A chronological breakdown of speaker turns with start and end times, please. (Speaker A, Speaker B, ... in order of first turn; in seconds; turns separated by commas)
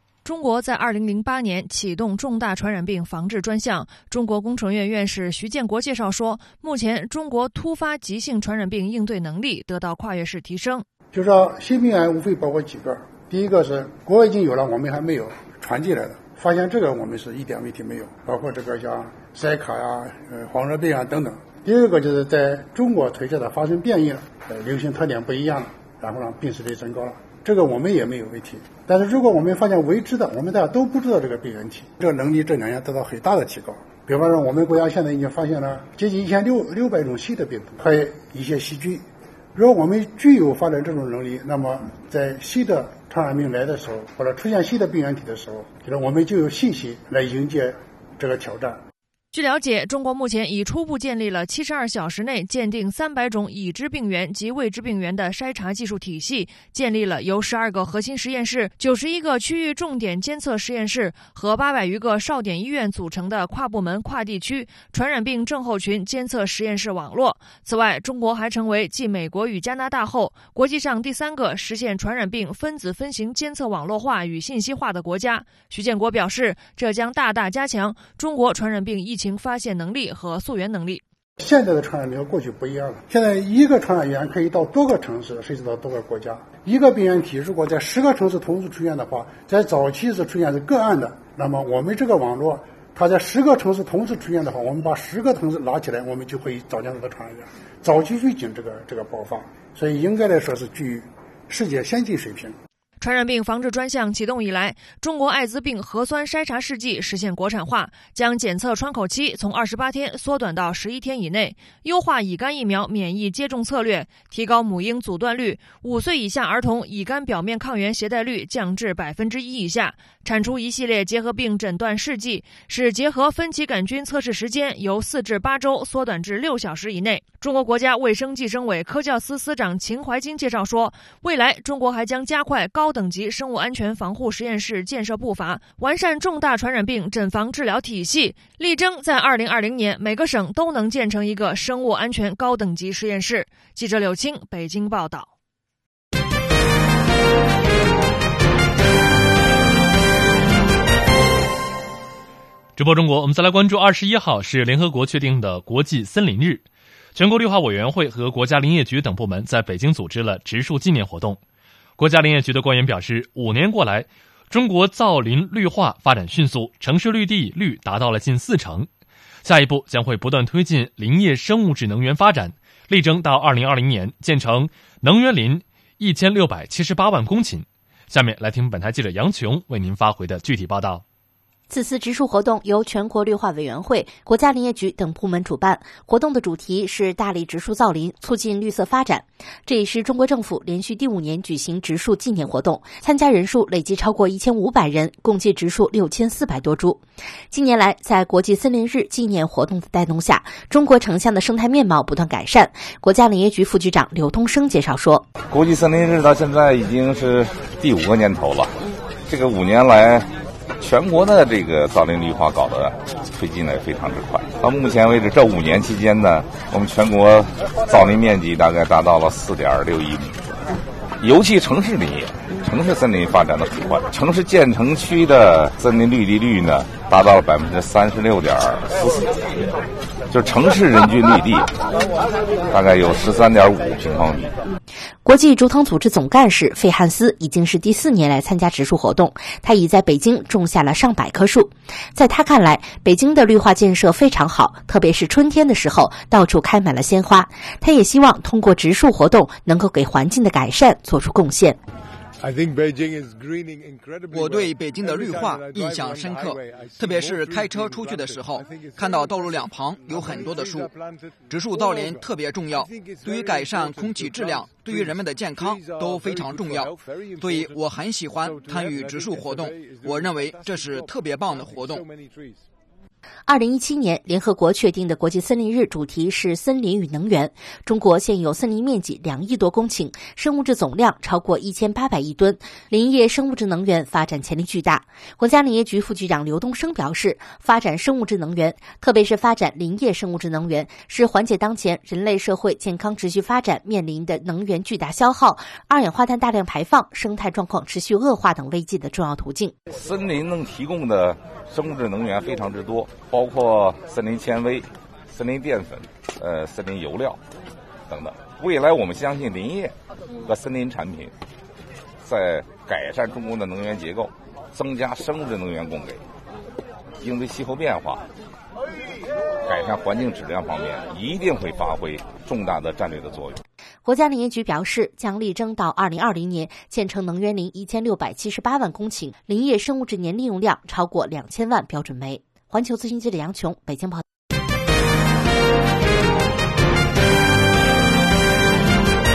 Speaker A: 0.2-10.8, Speaker B: 11.1-48.8, Speaker A: 49.3-81.0, Speaker B: 81.4-102.6, Speaker A: 103.0-145.3, Speaker C: 152.8-161.4, Speaker C: 162.0-168.9, Speaker C: 169.4-181.0, Speaker D: 181.7-205.3, Speaker E: 205.5-210.3, Speaker E: 210.8-220.4, Speaker E: 221.2-229.7, Speaker E: 230.3-231.7, Speaker E: 232.7-234.5, Speaker D: 235.2-251.8, Speaker F: 254.3-260.9, Speaker F: 261.5-272.0, Speaker D: 273.5-299.7, Speaker E: 299.9-307.4, Speaker E: 308.1-309.9, Speaker E: 310.4-311.3, Speaker E: 312.2-316.2, Speaker E: 317.2-318.2, Speaker E: 319.6-323.6, Speaker D: 324.1-334.2